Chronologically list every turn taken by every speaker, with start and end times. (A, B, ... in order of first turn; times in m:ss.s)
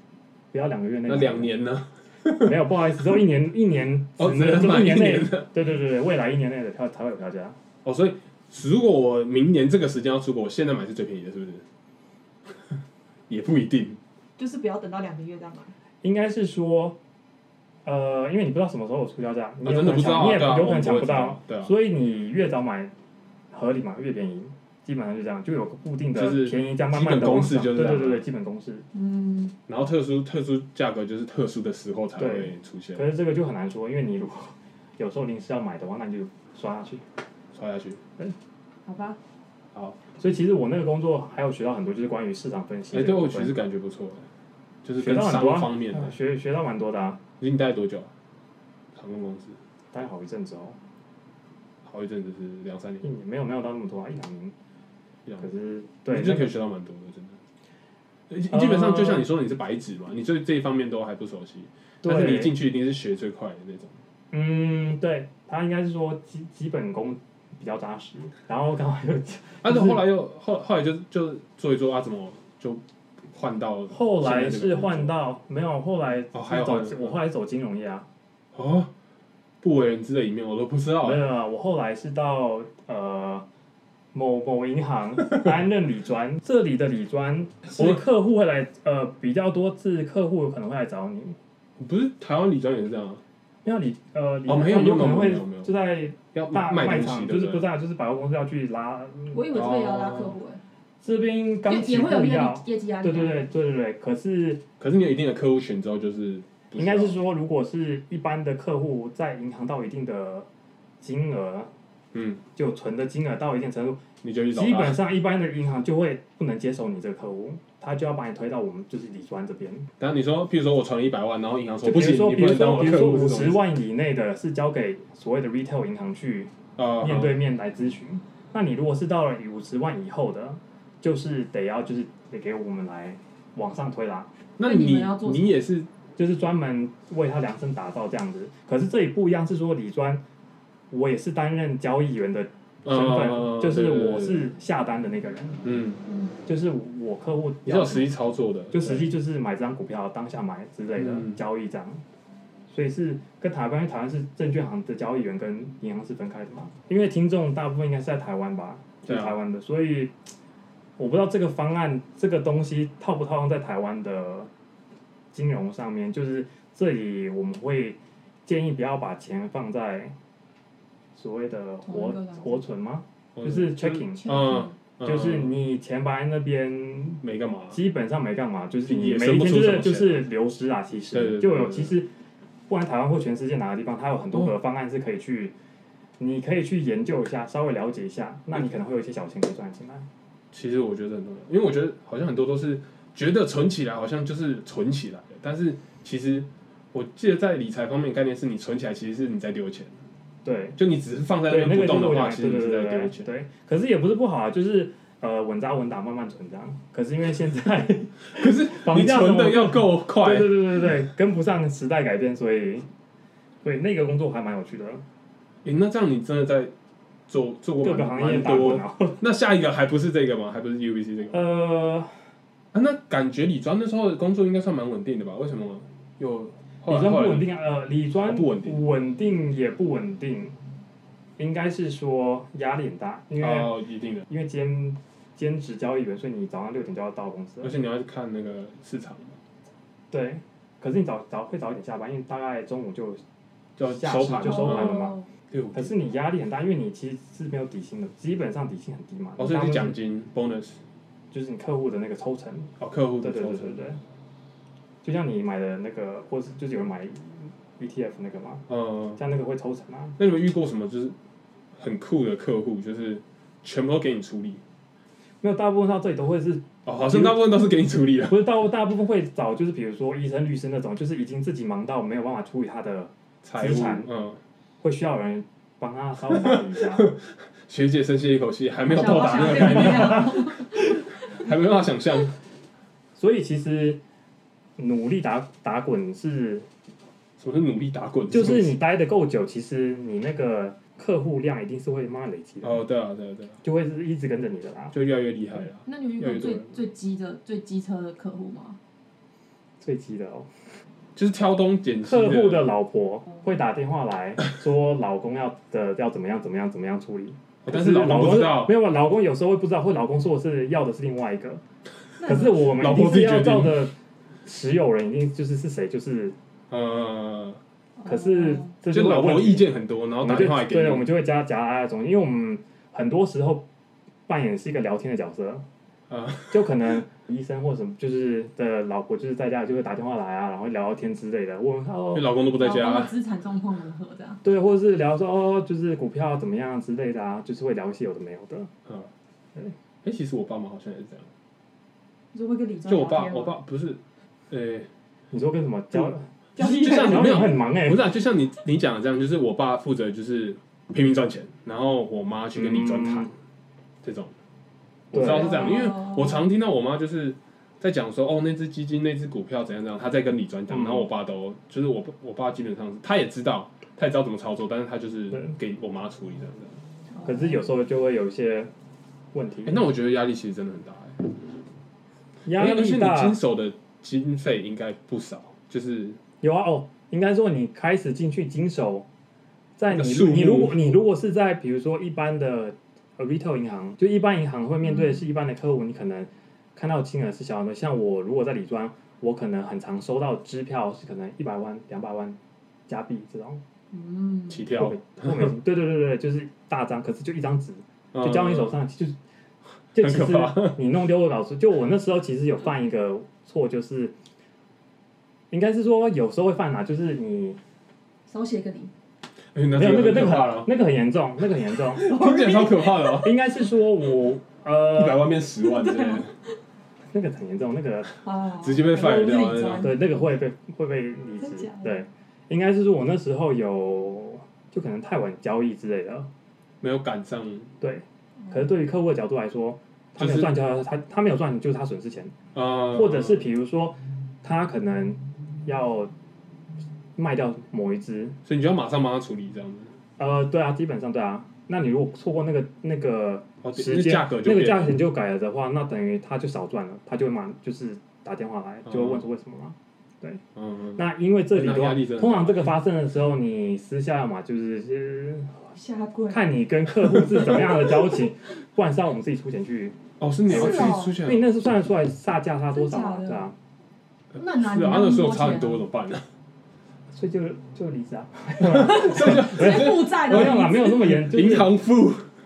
0:00.5-0:01.5 A
0:01.1-0:02.6 B
0:02.4-0:07.6 A
0:04.2-0:05.5 B
0:07.8-0:11.6 B
0:13.3-0:14.0 B
0:14.4-0:15.7 C
0:16.0-0:17.0 A
0:17.8-0:22.9 A
0:19.6-0:21.7 B
0:23.5-0:28.9 A
0:26.2-0:28.2 B
0:28.9-0:29.6 C
0:29.7-0:33.1 B
0:32.2-0:37.0 A
0:37.5-0:38.0 B
0:38.8-0:39.2 C
0:39.7-0:40.0 B
0:40.2-0:43.6 A
0:42.9-0:44.3 B
0:44.8-0:46.1 B
0:45.0-0:47.2 A
0:47.4-0:48.1 B
0:48.9-0:49.6 B
0:49.9-0:50.8 A
0:51.8-0:53.1 B
0:53.0-0:54.6 A
0:55.4-0:56.5 A
0:56.1-0:57.4 B
0:58.3-1:04.0 B
0:58.5-0:59.3 A
1:02.0-1:02.5 A
1:04.3-1:10.0 A
1:09.6-1:15.1 B
1:13.9-1:18.1 A
1:16.3-1:17.2 B
1:18.5-1:18.9 B
1:19.6-1:21.3 B
1:21.0-1:23.5 A
1:24.1-1:31.4 A
1:31.8-1:33.2 B
1:33.6-1:39.6 A
1:34.5-1:35.7 B
1:36.3-1:37.7 B
1:39.3-1:40.6 C
1:39.5-1:40.4 B
1:41.0-1:44.6 A
1:41.7-1:43.5 C
1:44.8-1:47.2 B
1:46.8-1:50.5 A
1:51.0-1:51.7 A
1:52.1-1:52.4 B
1:52.6-1:59.9 A
1:54.2-1:55.0 B
2:00.0-2:03.6 B
2:01.8-2:14.3 A
2:06.8-2:07.4 B
2:14.6-2:15.9 B
2:14.6-2:15.5 C
2:16.2-2:20.2 A
2:20.9-2:25.6 A
2:22.8-2:24.5 B
2:25.6-2:26.0 B
2:26.4-2:28.1 A
2:27.6-2:29.1 B
2:28.7-2:32.0 A
2:31.0-2:31.4 B
2:32.7-2:40.1 A
2:39.1-2:39.4 B
2:41.0-2:44.5 A
2:45.3-2:50.1 A
2:51.2-2:54.4 A
2:51.8-2:52.6 C
2:53.4-2:55.6 B
2:54.2-2:54.8 C
2:55.0-3:02.1 A
2:57.2-2:57.8 B
2:58.8-3:00.3 B
3:01.1-3:02.0 B
3:02.7-3:05.6 A
3:06.2-3:10.1 A
3:10.5-3:20.0 B
3:20.4-3:20.8 A
3:20.8-3:23.3 B
3:21.5-3:32.9 A
3:28.3-3:30.9 B
3:33.6-3:35.0 A
3:35.6-3:36.7 B
3:37.3-3:41.4 B
3:37.8-3:39.2 A
3:41.3-3:42.2 A
3:42.7-3:47.5 B
3:46.9-3:50.6 A
3:48.2-3:48.8 B
3:51.4-3:53.8 A
3:53.4-3:54.3 B
3:54.3-3:57.7 A
3:57.6-3:59.4 B
4:00.1-4:03.2 A
4:03.8-4:05.9 B
4:03.8-4:05.2 A
4:04.4-4:05.3 C
4:05.7-4:10.0 A
4:09.4-4:10.8 B
4:11.3-4:14.0 A
4:12.8-4:13.8 B
4:15.0-4:18.6 A
4:18.7-4:19.2 B
4:19.2-4:20.2 A
4:20.2-4:21.2 B
4:21.8-4:24.6 B
4:25.4-4:27.6 A
4:26.8-4:28.5 B
4:28.3-4:34.1 A
4:33.4-4:34.4 B
4:34.8-4:37.1 A
4:36.3-4:42.4 B
4:38.9-4:40.9 C
4:43.2-4:44.0 A
4:44.8-4:46.7 A
4:47.4-4:48.8 B
4:48.3-4:52.8 A
4:52.6-4:53.6 B
4:53.6-4:55.0 A
4:54.9-4:56.8 B
4:55.8-4:58.8 C
4:59.8-5:00.5 A
5:01.2-5:02.7 B
5:02.0-5:11.6 A
5:07.6-5:08.8 B
5:12.2-5:12.6 C
5:12.2-5:13.9 A
5:12.3-5:13.8 B
5:14.4-5:16.4 A
5:16.7-5:17.6 B
5:18.0-5:18.7 C
5:18.0-5:19.7 A
5:18.9-5:21.1 B
5:20.2-5:23.7 A
5:24.3-5:25.6 A
5:26.1-5:26.9 B
5:26.5-5:32.2 A
5:32.1-5:33.1 B
5:32.6-5:34.4 C
5:34.4-5:38.7 A
5:38.9-5:39.1 B
5:40.0-5:41.3 B
5:42.3-5:43.6 C
5:42.8-5:44.9 B
5:45.3-5:48.0 A
5:46.6-5:47.6 C
5:46.6-5:53.3 B
5:52.6-5:53.3 A
5:54.0-5:54.3 B
5:55.1-5:55.7 A
5:55.1-6:06.8 B
5:55.3-5:56.3 C
6:00.7-6:01.0 A
6:07.2-6:07.6 C
6:07.2-6:08.7 A
6:09.3-6:09.9 A
6:09.6-6:11.2 B
6:12.4-6:13.4 A
6:12.6-6:16.2 B
6:16.4-6:19.1 A
6:19.8-6:33.6 A
6:19.9-6:20.8 B
6:24.9-6:25.2 C
6:33.9-6:34.6 C
6:34.5-6:35.5 B
6:34.7-6:39.2 A
6:38.1-6:38.8 B
6:39.9-6:44.1 A
6:40.0-6:40.8 B
6:45.5-6:47.6 A
6:48.3-6:48.9 C
6:49.5-6:50.7 B
6:49.8-6:52.1 A
6:51.9-6:53.4 B
6:52.0-6:53.2 C
6:53.1-6:55.3 A
6:54.9-6:56.4 B
6:55.6-6:56.3 C
6:57.1-6:58.2 A
6:58.2-7:00.2 C
6:58.6-7:00.0 B
6:59.8-7:06.3 A
7:01.4-7:02.0 C
7:06.8-7:07.7 B
7:07.8-7:12.3 A
7:10.2-7:10.5 B
7:12.5-7:13.5 B
7:12.9-7:16.1 A
7:17.2-7:18.4 A
7:18.4-7:19.9 B
7:20.2-7:30.4 A
7:23.6-7:25.0 B
7:28.9-7:29.2 B
7:30.6-7:31.0 B
7:31.0-7:35.6 A
7:31.5-7:32.7 B
7:35.7-7:36.4 C
7:36.3-7:43.6 A
7:37.1-7:37.8 B
7:40.2-7:41.5 B
7:40.5-7:41.2 C
7:42.7-7:43.5 C
7:44.3-7:46.2 B
7:44.4-7:45.8 C
7:47.1-7:51.7 A
7:48.6-7:52.3 B
7:48.7-7:51.1 C